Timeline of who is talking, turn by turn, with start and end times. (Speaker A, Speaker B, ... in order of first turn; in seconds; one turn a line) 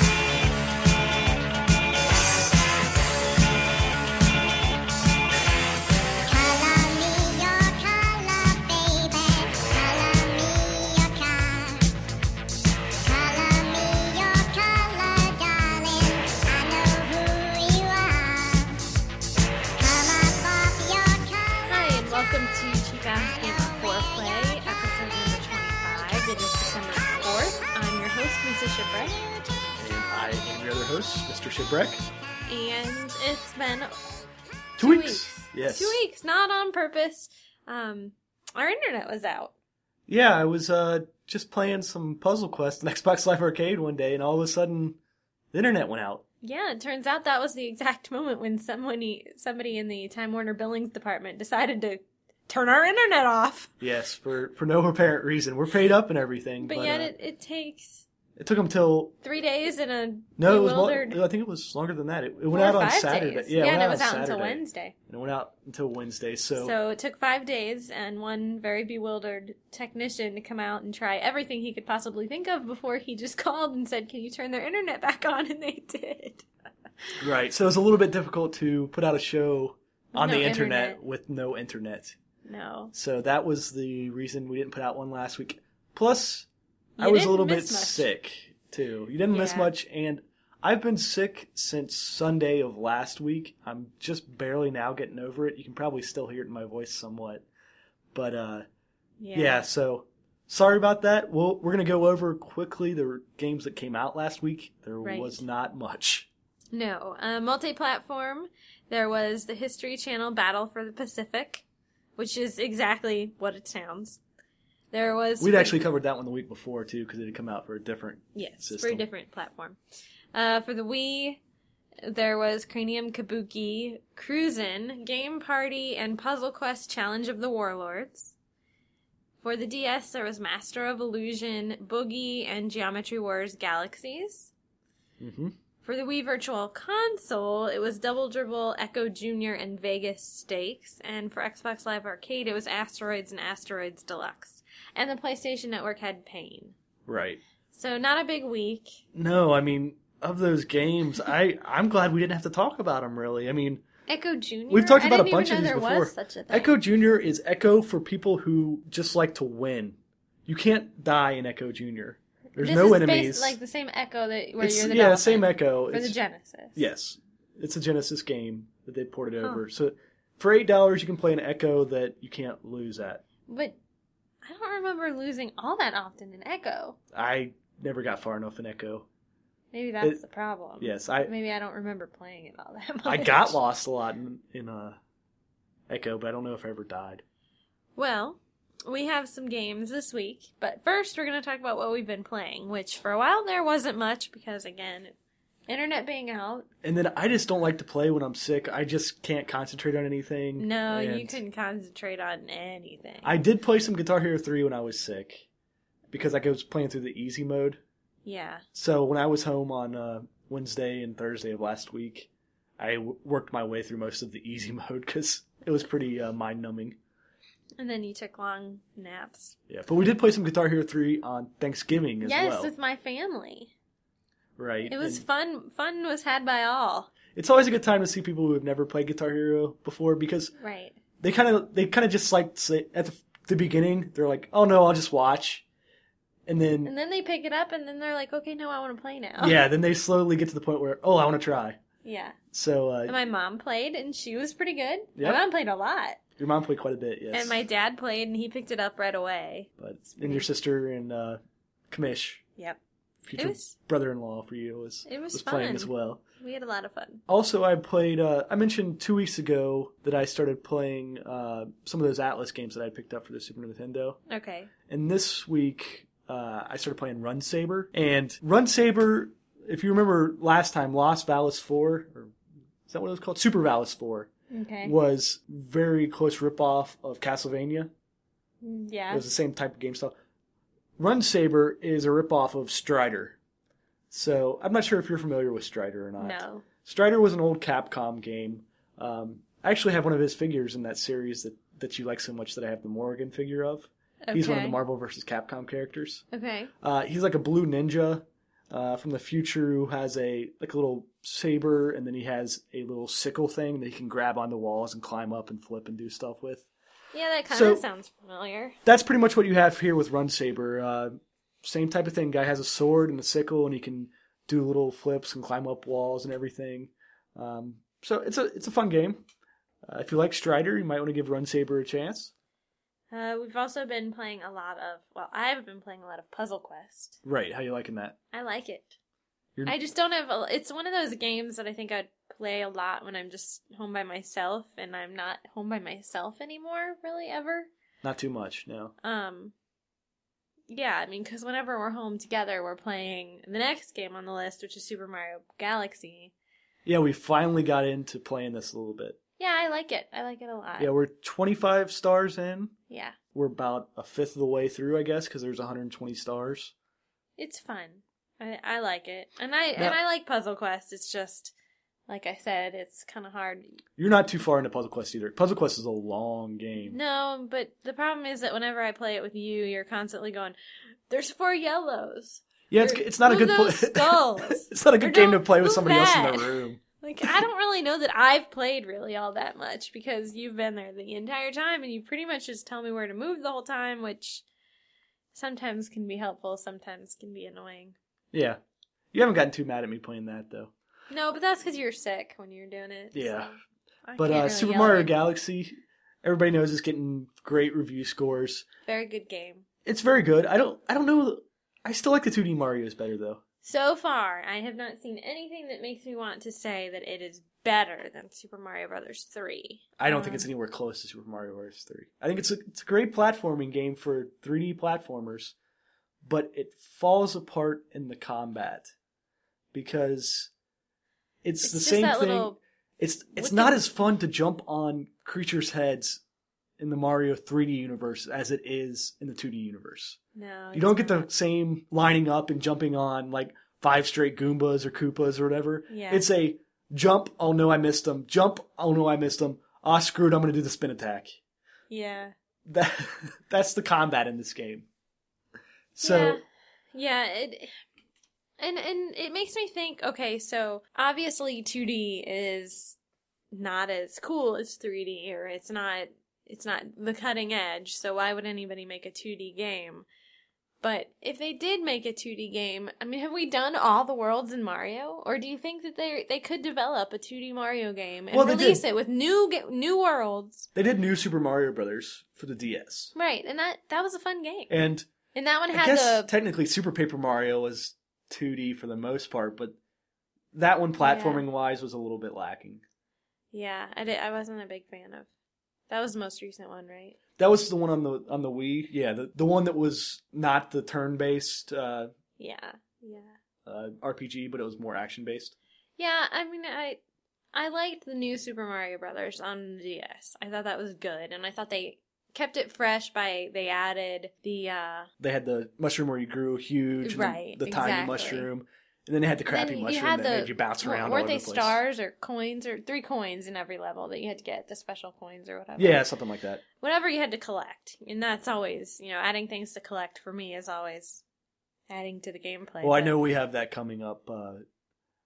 Speaker A: 6.3-11.9
Speaker A: 13.0-18.8
Speaker A: 19.8-21.7
Speaker B: 21.7-29.2
Speaker C: 29.8-32.0
Speaker B: 32.5-34.0
Speaker C: 34.8-36.0
Speaker B: 34.8-39.5
Speaker C: 40.1-45.0
Speaker C: 45.5-46.2
Speaker B: 46.4-53.7
Speaker C: 53.8-57.1
Speaker B: 56.6-58.0
Speaker C: 58.4-59.1
Speaker B: 59.2-61.2
Speaker C: 60.4-66.8
Speaker B: 62.5-64.9
Speaker B: 66.6-76.5
Speaker C: 77.2-82.2
Speaker B: 80.1-81.0
Speaker B: 82.5-82.9
Speaker C: 82.9-86.5
Speaker B: 87.0-88.1
Speaker C: 87.0-97.5
Speaker B: 89.3-89.7
Speaker C: 98.1-98.7
Speaker B: 99.2-99.6
Speaker C: 99.3-106.3
Speaker B: 105.0-105.4
Speaker B: 106.7-111.6
Speaker B: 112.2-114.2
Speaker B: 114.9-115.8
Speaker C: 115.4-119.1
Speaker B: 118.3-119.8
Speaker B: 120.3-121.4
Speaker B: 122.0-128.3
Speaker B: 129.4-134.5
Speaker C: 135.2-135.6
Speaker B: 135.8-146.8
Speaker C: 147.1-147.4
Speaker B: 147.7-149.0
Speaker C: 149.1-153.8
Speaker B: 154.1-156.8
Speaker C: 154.7-163.6
Speaker B: 162.6-166.8
Speaker C: 164.6-166.2
Speaker C: 166.8-173.2
Speaker B: 173.5-173.8
Speaker B: 174.4-177.0
Speaker C: 177.1-179.1
Speaker B: 179.7-183.6
Speaker C: 180.8-181.3
Speaker C: 183.1-185.0
Speaker C: 185.9-187.2
Speaker B: 188.0-195.1
Speaker B: 195.7-196.7
Speaker C: 196.8-201.4
Speaker B: 200.6-203.3
Speaker C: 203.2-205.5
Speaker C: 206.1-207.8
Speaker B: 208.2-208.6
Speaker C: 208.8-217.0
Speaker B: 217.8-219.6
Speaker C: 219.7-222.7
Speaker B: 222.2-223.7
Speaker C: 224.6-225.2
Speaker B: 224.9-227.1
Speaker C: 227.3-230.5
Speaker B: 230.6-231.0
Speaker C: 231.2-235.6
Speaker C: 236.5-236.9
Speaker B: 236.8-239.6
Speaker C: 239.4-241.8
Speaker B: 242.0-242.4
Speaker C: 242.5-243.2
Speaker B: 243.1-246.2
Speaker C: 246.4-247.6
Speaker B: 247.3-250.5
Speaker C: 249.8-251.4
Speaker C: 251.9-252.4
Speaker C: 253.2-256.2
Speaker B: 253.4-253.7
Speaker B: 255.1-257.2
Speaker C: 257.3-264.2
Speaker B: 264.3-264.7
Speaker C: 264.9-272.3
Speaker C: 272.9-274.3
Speaker B: 274.5-274.9
Speaker C: 274.8-277.9
Speaker B: 278.6-279.3
Speaker C: 279.1-280.1
Speaker C: 281.0-283.4
Speaker C: 284.1-296.2
Speaker B: 286.2-286.6
Speaker B: 294.3-294.8
Speaker B: 296.3-296.7
Speaker C: 296.8-306.7
Speaker B: 307.1-308.8
Speaker C: 307.5-307.8
Speaker C: 308.9-319.2
Speaker C: 319.9-322.3
Speaker B: 323.1-327.2
Speaker C: 327.2-328.1
Speaker B: 328.3-328.9
Speaker B: 329.7-337.7
Speaker C: 338.0-338.9
Speaker B: 339.0-339.5
Speaker B: 340.7-346.3
Speaker C: 346.9-349.2
Speaker B: 349.4-350.9
Speaker C: 350.8-352.7
Speaker B: 352.9-353.2
Speaker C: 353.3-356.7
Speaker B: 357.4-361.5
Speaker B: 362.1-363.8
Speaker C: 364.0-367.0
Speaker B: 366.9-370.6
Speaker B: 371.1-384.4
Speaker C: 372.7-377.4
Speaker B: 385.3-387.9
Speaker C: 388.3-388.6
Speaker C: 389.1-390.7
Speaker B: 391.1-395.1
Speaker C: 393.1-393.5
Speaker C: 394.2-398.7
Speaker B: 398.9-399.6
Speaker C: 399.9-403.4
Speaker B: 403.6-410.5
Speaker C: 410.0-415.6
Speaker C: 416.2-418.9
Speaker C: 419.7-420.5
Speaker C: 421.4-426.2
Speaker B: 421.6-422.6
Speaker B: 423.4-423.7
Speaker C: 426.8-430.2
Speaker B: 430.4-431.3
Speaker C: 430.7-441.4
Speaker B: 435.9-436.2
Speaker B: 441.9-442.3
Speaker C: 442.7-444.9
Speaker C: 446.0-446.4
Speaker B: 446.0-447.8
Speaker B: 448.6-453.0
Speaker B: 453.5-460.1
Speaker B: 460.8-470.7
Speaker C: 468.3-468.8
Speaker C: 470.8-473.1
Speaker B: 473.1-474.7
Speaker C: 474.7-475.1
Speaker B: 475.3-476.3
Speaker C: 475.7-479.8
Speaker C: 480.5-482.8
Speaker B: 481.0-481.4
Speaker B: 483.5-485.3
Speaker B: 485.9-487.2
Speaker C: 487.4-492.1
Speaker B: 492.4-493.3
Speaker C: 493.6-495.6
Speaker B: 496.0-497.0
Speaker B: 497.5-505.1
Speaker C: 505.2-511.8
Speaker B: 507.0-508.5
Speaker B: 509.5-516.0
Speaker C: 515.8-516.6
Speaker B: 516.7-521.2
Speaker B: 521.9-523.2
Speaker C: 522.8-524.6